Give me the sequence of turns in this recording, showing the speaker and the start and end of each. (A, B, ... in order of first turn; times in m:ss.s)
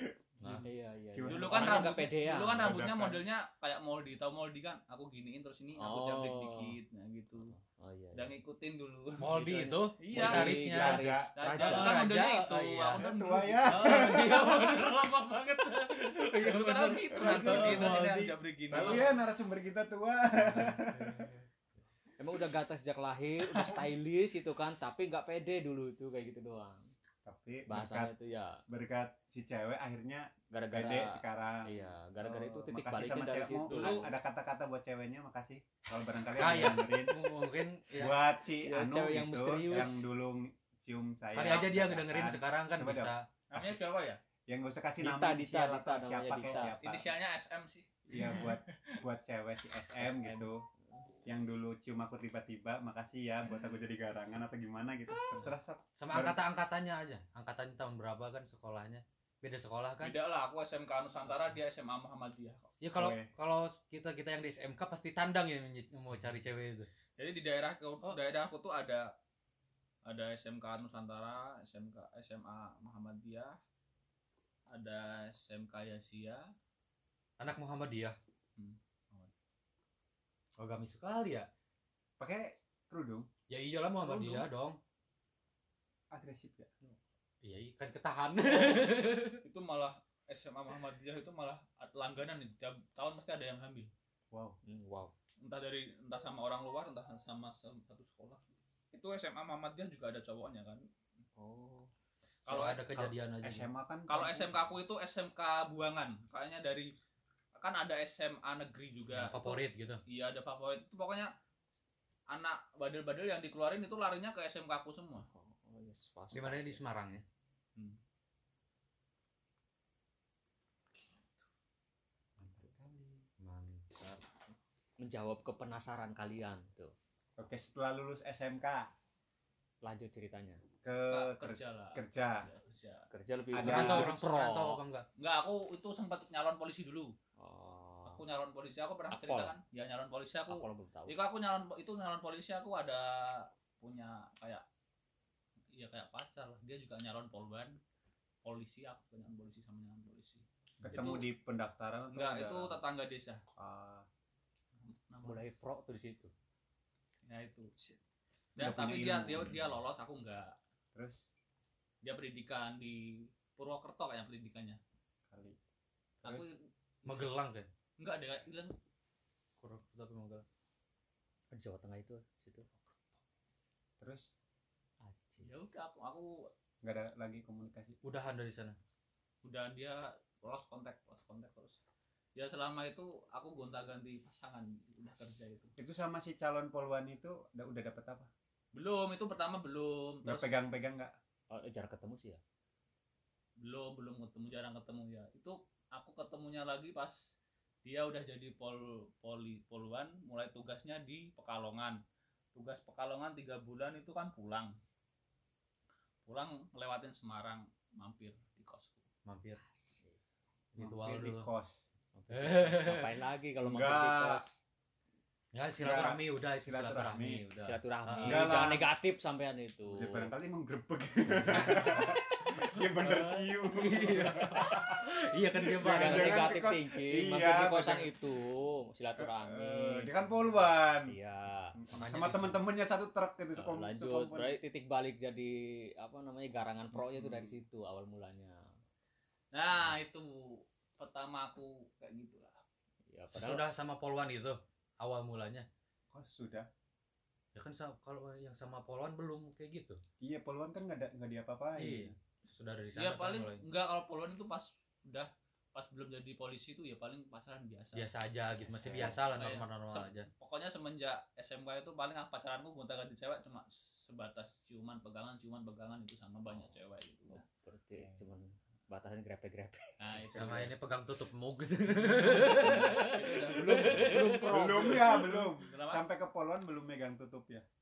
0:00.4-0:01.9 A
0:00.4-0:02.7 B
0:01.3-0:07.5 C
0:02.6-0:03.2 A
0:05.8-0:06.7 B
0:07.4-0:08.3 B
0:08.1-0:09.3 C
0:09.2-0:13.0 D
0:09.3-0:12.1 B
0:10.0-0:10.6 C
0:10.2-0:11.3 A
0:11.4-0:14.8 C
0:13.0-0:14.6 A
0:13.6-0:19.1 D
0:16.2-0:19.1 C
0:17.1-0:18.1 A
0:18.7-0:21.3 A
0:20.5-0:21.4 D
0:22.2-0:26.9 B
0:27.2-0:28.1 A
0:27.7-0:28.6 B
0:28.7-0:37.1 A
0:30.5-0:34.1 B
0:33.7-0:34.1 C
0:36.4-0:38.2 D
0:38.0-0:43.1 A
0:38.6-0:40.0 B
0:41.3-0:43.8 D
0:41.4-0:41.8 C
0:43.5-0:44.2 C
0:44.5-0:47.1 A
0:45.0-0:46.8 B
0:46.5-0:49.0 C
0:48.1-0:50.6 A
0:50.0-0:51.0 B
0:51.2-0:56.4 A
0:56.0-1:00.2 D
1:00.0-1:02.7 C
1:02.8-1:06.9 D
1:02.9-1:03.3 A
1:07.2-1:09.0 C
1:10.0-1:13.6 C
1:14.7-1:16.4 C
1:17.4-1:18.2 D
1:18.6-1:19.3 C
1:20.6-1:21.5 D
1:22.2-1:23.3 A
1:23.5-1:24.8 D
1:24.0-1:24.5 C
1:26.1-1:26.7 A
1:27.4-1:29.4 D
1:28.4-1:28.9 C
1:29.4-1:33.9 C
1:34.3-1:34.6 A
1:34.6-1:35.1 B
1:35.4-1:38.4 C
1:38.9-1:40.8 C
1:41.4-1:41.9 B
1:42.4-1:43.1 C
1:42.4-1:43.7 D
1:43.4-1:44.6 A
1:44.1-1:46.9 C
1:47.5-1:51.3 C
1:49.1-1:50.0 D
1:52.3-1:55.2 C
1:55.2-1:56.8 B
1:56.3-1:57.2 D
2:02.4-2:03.3 A
2:03.4-2:04.2 B
2:05.0-2:06.9 B
2:07.4-2:08.8 A
2:09.8-2:10.6 B
2:10.8-2:12.4 A
2:11.1-2:13.0 C
2:13.1-2:14.8 B
2:13.5-2:14.1 A
2:13.6-2:15.0 D
2:15.2-2:17.1 C
2:17.4-2:18.2 B
2:18.0-2:23.1 C
2:19.1-2:19.6 B
2:20.5-2:21.2 B
2:23.8-2:24.6 C
2:25.8-2:27.8 C
2:28.4-2:31.2 C
2:30.8-2:32.8 A
2:32.1-2:33.4 C
2:33.6-2:34.1 A
2:34.8-2:35.4 C
2:35.2-2:36.3 B
2:37.3-2:37.7 C
2:38.6-2:40.5 C
2:38.6-2:39.5 A
2:40.9-2:41.2 A
2:42.0-2:44.8 C
2:45.3-2:45.6 A
2:46.2-2:46.5 A
2:46.2-2:47.3 C
2:47.0-2:47.7 D
2:48.0-2:48.7 C
2:49.6-2:50.4 D
2:51.5-2:52.6 B
2:52.7-2:53.2 D
2:54.0-2:54.3 A
2:55.0-2:55.5 B
2:55.4-2:56.3 C
2:56.8-2:57.9 A
2:58.0-2:58.8 D
2:59.4-3:01.8 C
3:02.4-3:05.7 C
3:05.8-3:08.3 A
3:08.7-3:10.5 C
3:10.2-3:11.1 A
3:11.5-3:12.4 B
3:13.6-3:17.2 C
3:17.8-3:22.0 C
3:22.5-3:24.7 C
3:26.2-3:29.0 C
3:29.2-3:29.6 D
3:29.6-3:30.2 B
3:30.7-3:31.5 D
3:30.8-3:31.8 A
3:32.1-3:34.5 B
3:32.3-3:33.1 D
3:33.6-3:34.4 A
3:35.5-3:38.6 D
3:35.8-3:37.4 A
3:37.6-3:40.3 B
3:38.2-3:38.8 A
3:39.9-3:45.0 A
3:41.4-3:42.2 D
3:41.6-3:41.8 B
3:43.1-3:46.5 D
3:45.6-3:48.1 A
3:45.8-3:50.2 B
3:49.2-3:51.1 A
3:51.1-3:51.7 B
3:51.8-3:54.6 A
3:51.9-3:52.6 D
3:53.5-3:58.6 B
3:56.9-3:57.6 A
3:59.5-4:02.6 C
4:03.1-4:03.6 B
4:03.3-4:05.6 D
4:06.1-4:06.7 A
4:07.5-4:10.0 D
4:10.2-4:12.1 A
4:11.8-4:13.6 D
4:12.9-4:18.1 C
4:17.9-4:20.3 D
4:18.5-4:19.2 B
4:18.9-4:27.4 C
4:26.5-4:30.2 B
4:30.0-4:30.7 C
4:30.3-4:35.4 D
4:32.5-4:33.0 B
4:32.6-4:33.8 C
4:33.5-4:35.4 B
4:34.5-4:37.6 A
4:35.6-4:36.0 C